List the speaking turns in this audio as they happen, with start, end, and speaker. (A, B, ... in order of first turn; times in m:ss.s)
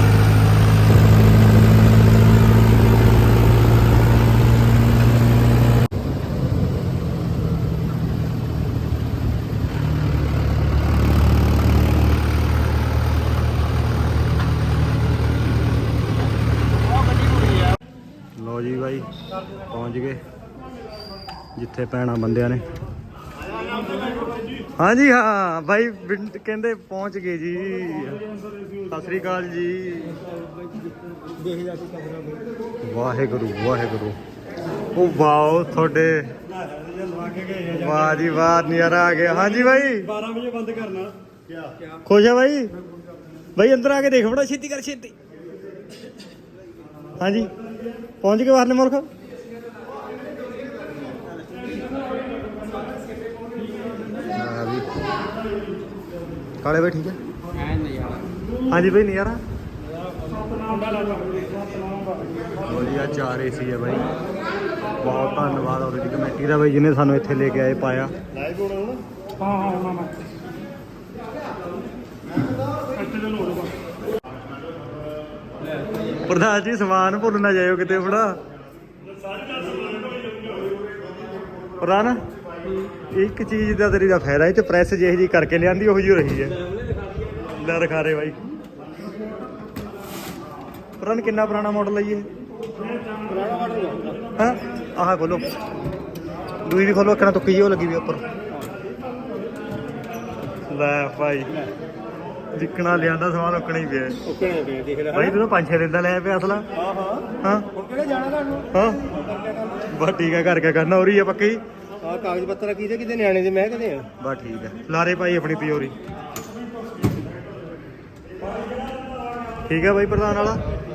0:18.4-0:19.1 A
0:19.7-0:20.2 A
0:21.6-0:22.7 A
0:24.0-0:24.3 B
0:24.8-0:28.2 A
0:28.2-0:28.9 B
0:28.9-0:30.2 A
0:31.3-0:32.4 C
0:32.8-0:34.2 A
0:34.9-0:36.3 A
0:36.5-0:38.2 B
0:37.7-0:40.1 A
0:40.0-0:41.1 B
0:42.0-0:42.7 A
0:43.6-0:45.1 A
0:47.2-0:47.5 A
0:48.2-0:49.1 A
0:54.3-0:54.9 A
0:56.6-0:57.2 A
0:57.6-0:58.2 C
0:58.7-0:59.4 A
1:00.5-1:02.3 B
1:02.6-1:04.1 A
1:05.0-1:08.1 A
1:09.4-1:10.2 B
1:12.9-1:13.8 B
1:16.2-1:18.4 A
1:19.3-1:20.5 B
1:21.8-1:22.2 A
1:23.0-1:26.6 A
1:27.6-1:28.4 A
1:31.0-1:32.3 A
1:33.2-1:34.2 C
1:34.4-1:35.5 A
1:36.6-1:38.2 A
1:40.5-1:41.7 A
1:42.5-1:44.2 A
1:44.3-1:45.4 C
1:45.1-1:46.7 A
1:46.8-1:49.8 C
1:47.4-1:47.7 A
1:48.7-1:49.0 A
1:49.9-1:51.6 A
1:52.0-1:54.1 C
1:54.2-1:56.0 A
1:59.7-2:00.6 A